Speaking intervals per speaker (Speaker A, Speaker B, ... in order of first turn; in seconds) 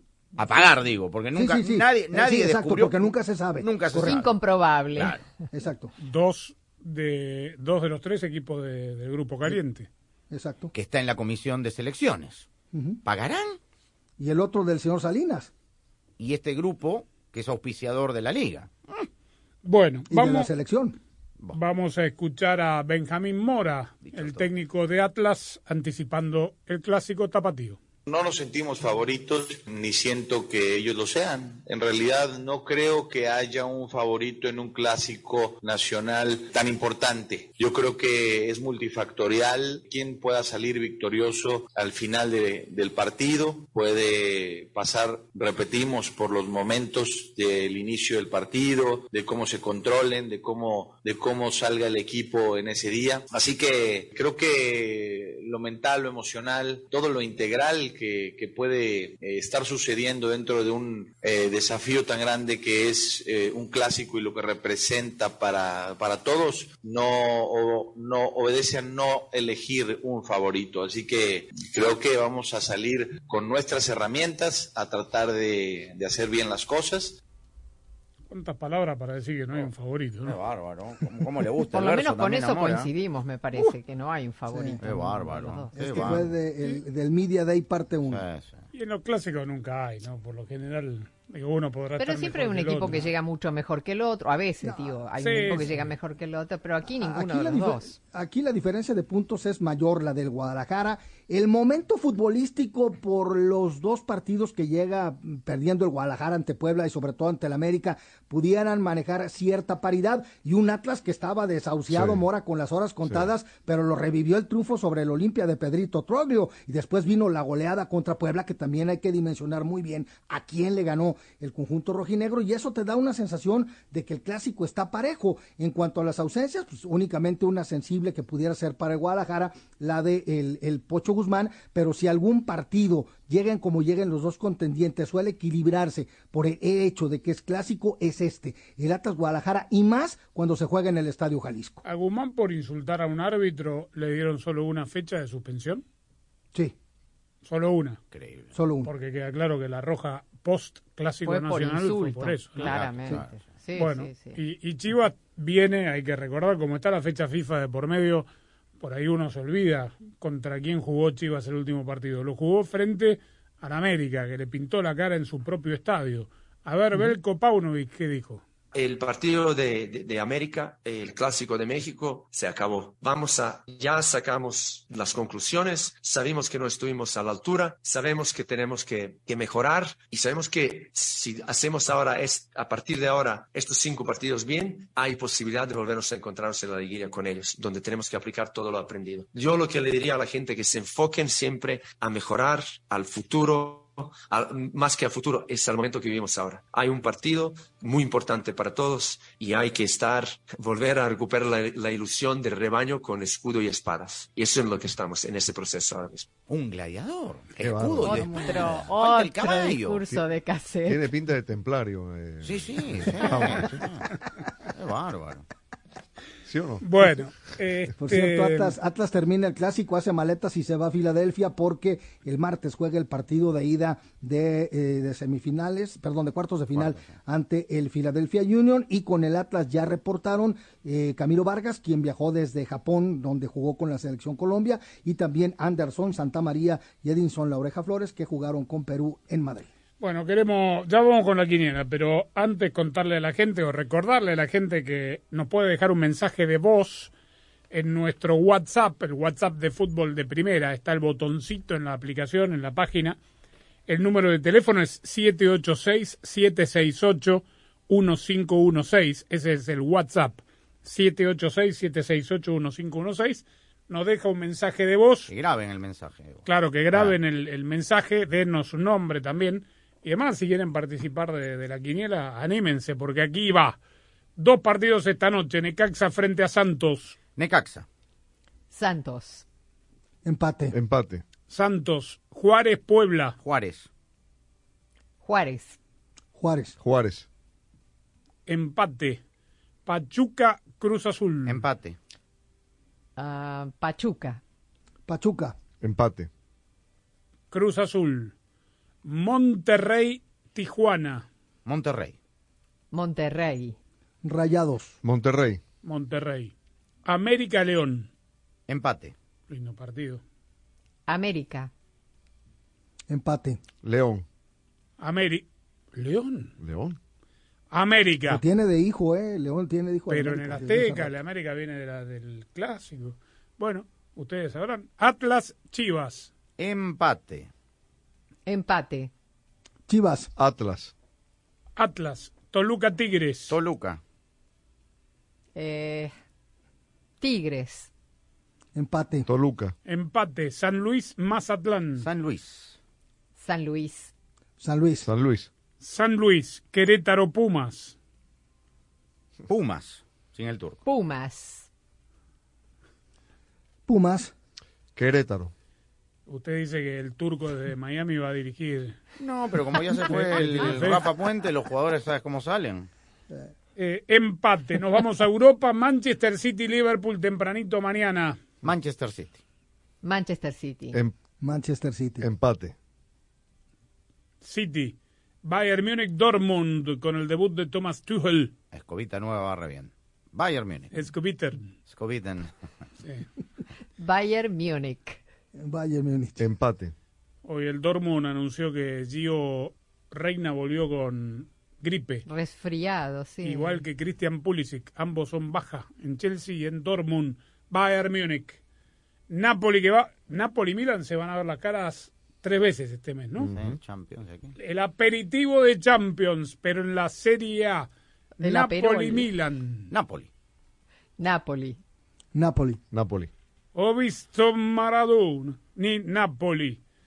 Speaker A: 0.3-4.4, 5.0-5.2, 10.7-12.5, 13.1-13.6, 16.2-19.1, 24.0-24.5, 80.2-82.9, 84.8-86.3, 88.1-88.7, 148.1-148.5, 152.6-153.5, 206.5-210.0, 212.4-215.4, 226.7-227.1, 265.3-267.2, 277.4-277.9, 283.4-283.9, 291.5-292.0, 301.7-302.2, 308.7-309.1, 326.6-327.5, 333.5-334.0, 342.0-342.8, 349.5-350.8, 359.2-362.9, 368.6-369.4, 378.7-380.9, 381.9-382.5, 403.5-404.6, 409.9-410.3
Speaker B: 1.3-4.2, 5.5-5.9, 10.3-10.7, 12.7-13.0, 14.2-15.5, 20.1-21.0, 84.5-84.8, 85.8-88.2, 94.6-95.0, 96.9-141.8, 148.5-148.9, 208.1-208.6, 218.0-239.7, 280.2-280.8, 286.4-286.8, 295.1-295.6, 304.2-304.9, 313.1-313.6, 318.3-321.1, 329.9-330.3, 338.8-339.3, 344.6-345.1, 353.9-354.3, 371.4-372.3, 385.6-386.4, 412.3-412.8
Speaker C: 4.0-5.2, 81.7-85.9, 92.0-98.0, 151.2-154.4, 208.0-211.1, 278.7-279.4, 285.2-285.8, 293.2-294.4, 302.9-303.8, 311.1-311.7, 328.5-329.1, 335.6-336.1, 337.2-337.9, 343.4-344.1, 350.9-351.7, 370.0-371.0, 384.0-385.2, 392.3-393.8, 408.4-409.3, 411.2-411.8
Speaker D: 6.0-9.9, 19.6-20.5, 21.5-27.8, 78.3-80.4, 85.8-86.1, 88.7-93.1, 95.2-95.7, 141.8-145.8, 147.4-148.0, 148.8-152.8, 153.8-158.3, 158.8-168.4, 216.8-218.8, 240.0-247.1, 247.7-253.2, 253.9-265.3, 266.4-273.8, 274.4-277.2, 281.5-283.4, 288.5-289.2, 289.9-291.6, 297.5-298.3, 299.0-301.3, 305.8-306.5, 307.1-308.1, 309.5-310.2, 315.0-316.6, 317.7-318.4, 320.1-326.3, 331.8-333.6, 339.9-342.1, 345.8-348.0, 356.3-359.0, 360.0-361.1, 363.8-368.4, 374.4-378.5, 380.9-381.7, 383.0-383.3, 387.4-392.3, 393.4-398.6, 399.3-403.5, 404.6-409.9, 413.8-416.8
Speaker E: 28.1-77.2
Speaker F: 111.9-112.2, 207.6-208.2, 210.9-213.8, 216.5-216.9, 280.7-281.2, 286.8-287.3, 295.8-296.3, 305.0-305.6, 313.8-314.2, 316.6-317.0, 330.4-330.9, 339.3-339.7, 345.0-345.5, 355.0-355.5, 360.2-360.7, 372.2-372.8, 386.4-386.9, 403.4-403.8, 412.9-413.3
Speaker G: 168.7-206.3